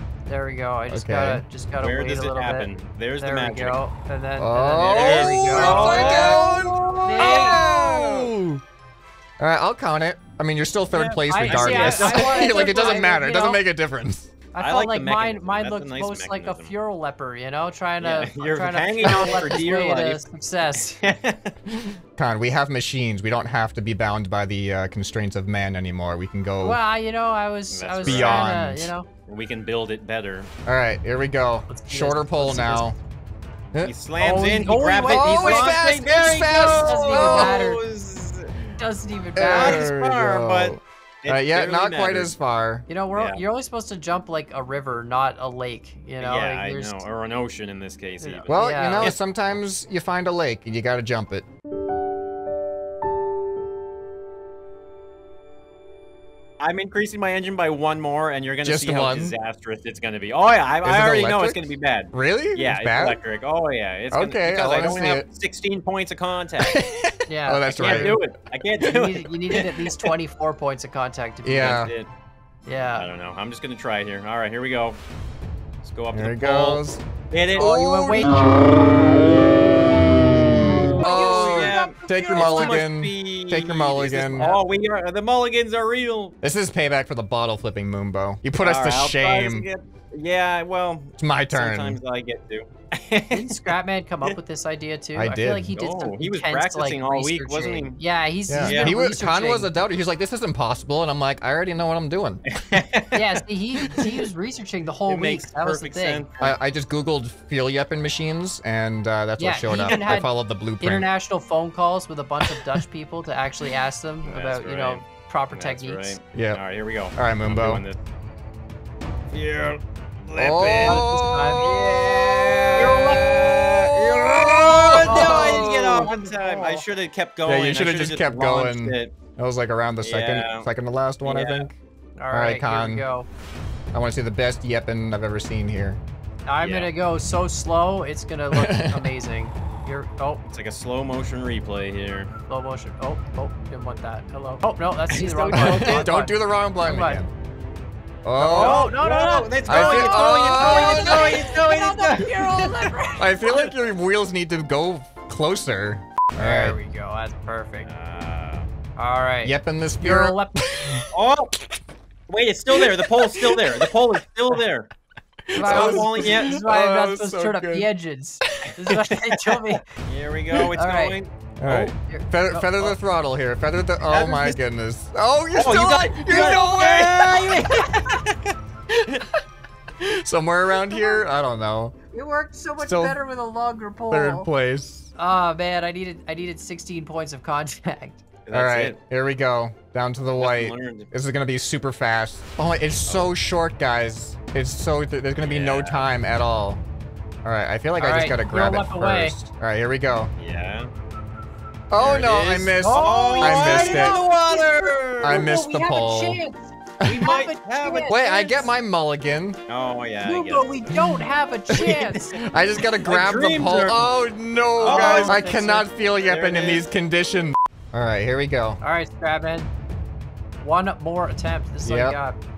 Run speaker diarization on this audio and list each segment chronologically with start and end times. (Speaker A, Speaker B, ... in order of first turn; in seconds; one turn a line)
Speaker A: 0.3-6.4
Speaker B: 0.9-1.4
Speaker C: 1.8-3.8
Speaker B: 4.4-8.6
Speaker C: 4.9-8.3
Speaker A: 7.0-7.6
Speaker B: 9.4-14.3
Speaker C: 10.9-13.0
Speaker A: 11.3-13.7
Speaker A: 14.5-21.0
Speaker C: 14.6-16.7
Speaker C: 18.0-20.3
Speaker B: 19.0-19.4
Speaker C: 20.9-21.6
Speaker B: 22.2-26.8
Speaker A: 26.6-29.1
Speaker C: 27.7-28.5
Speaker B: 28.0-28.9
Speaker C: 29.3-30.5
Speaker B: 30.7-33.0
Speaker A: 31.7-33.0
Speaker C: 33.8-38.5
Speaker A: 34.2-35.9
Speaker B: 35.1-37.7
Speaker A: 36.5-37.8
Speaker A: 38.8-39.9
Speaker B: 39.4-42.9
Speaker C: 39.5-42.3
Speaker A: 42.9-47.0
Speaker C: 43.1-43.4
Speaker C: 46.2-49.2
Speaker A: 48.2-49.1
Speaker B: 48.5-51.5
Speaker C: 56.6-66.8
Speaker B: 58.6-59.4
Speaker B: 60.8-63.2
Speaker B: 64.1-65.3
Speaker B: 66.6-68.2
Speaker A: 67.3-68.2
Speaker C: 67.8-69.6
Speaker A: 68.8-71.8
Speaker B: 71.4-71.9
Speaker C: 71.6-72.1
Speaker A: 72.7-73.1
Speaker C: 73.0-75.0
Speaker C: 75.8-77.8
Speaker B: 76.1-79.1
Speaker A: 77.6-78.8
Speaker B: 80.1-84.5
Speaker C: 80.5-86.3
Speaker A: 80.7-82.8
Speaker A: 84.3-84.7
Speaker B: 86.4-89.7
Speaker C: 88.6-94.3
Speaker B: 91.2-92.0
Speaker A: 93.3-99.7
Speaker B: 95.2-95.8
Speaker C: 95.8-98.0
Speaker B: 98.5-102.4
Speaker C: 98.6-99.0
Speaker C: 102.6-103.2
Speaker A: 103.1-106.2
Speaker C: 105.1-106.6
Speaker B: 106.4-111.1
Speaker A: 109.4-116.2
Speaker C: 109.8-110.2
Speaker C: 114.2-118.0
Speaker B: 116.3-116.6
Speaker B: 117.2-117.8
Speaker C: 119.3-121.1
Speaker B: 120.4-126.1
Speaker A: 120.8-121.7
Speaker C: 121.6-129.2
Speaker A: 124.9-126.8
Speaker B: 127.5-131.8
Speaker C: 130.0-130.7
Speaker C: 131.2-131.7
Speaker A: 132.2-133.3
Speaker B: 132.3-133.1
Speaker B: 133.9-136.0
Speaker A: 136.5-140.4
Speaker C: 136.6-136.9
Speaker B: 138.5-139.1
Speaker C: 140.5-142.3
Speaker A: 142.5-147.2
Speaker C: 145.1-146.1
Speaker B: 145.5-147.3
Speaker B: 148.2-148.9
Speaker A: 148.4-153.6
Speaker C: 148.6-152.9
Speaker B: 149.7-151.4
Speaker B: 153.2-156.8
Speaker A: 156.4-157.9
Speaker C: 157.8-158.7
Speaker A: 159.0-160.6
Speaker B: 159.4-161.1
Speaker C: 161.1-161.6
Speaker C: 162.3-164.9
Speaker B: 162.7-163.9
Speaker B: 165.5-167.9
Speaker A: 165.6-169.8
Speaker C: 165.6-166.6
Speaker B: 168.5-168.7
Speaker C: 170.1-171.9
Speaker A: 170.7-171.2
Speaker B: 171.6-177.7
Speaker A: 172.1-172.9
Speaker C: 174.1-174.6
Speaker C: 175.5-178.5
Speaker B: 179.0-179.4
Speaker B: 180.0-181.9
Speaker A: 180.9-181.2
Speaker A: 182.1-184.5
Speaker B: 182.8-183.2
Speaker B: 184.1-185.1
Speaker A: 185.2-188.2
Speaker C: 188.5-189.0
Speaker B: 188.5-196.8
Speaker C: 190.4-191.1
Speaker C: 193.1-193.3
Speaker C: 195.4-196.1
Speaker B: 197.4-200.3
Speaker A: 198.0-199.3
Speaker C: 200.4-200.9
Speaker B: 201.9-204.2
Speaker C: 201.9-205.5
Speaker A: 202.8-208.6
Speaker B: 205.2-206.4
Speaker B: 207.0-207.3
Speaker C: 207.0-208.7
Speaker B: 208.1-209.6
Speaker C: 209.7-211.0
Speaker A: 210.2-212.4
Speaker B: 210.9-211.2
Speaker C: 211.7-212.4
Speaker B: 212.4-218.8
Speaker C: 213.0-214.1
Speaker C: 214.8-215.4
Speaker A: 214.8-215.9
Speaker C: 216.2-216.8
Speaker A: 218.8-219.7
Speaker A: 220.6-222.4
Speaker B: 221.8-222.2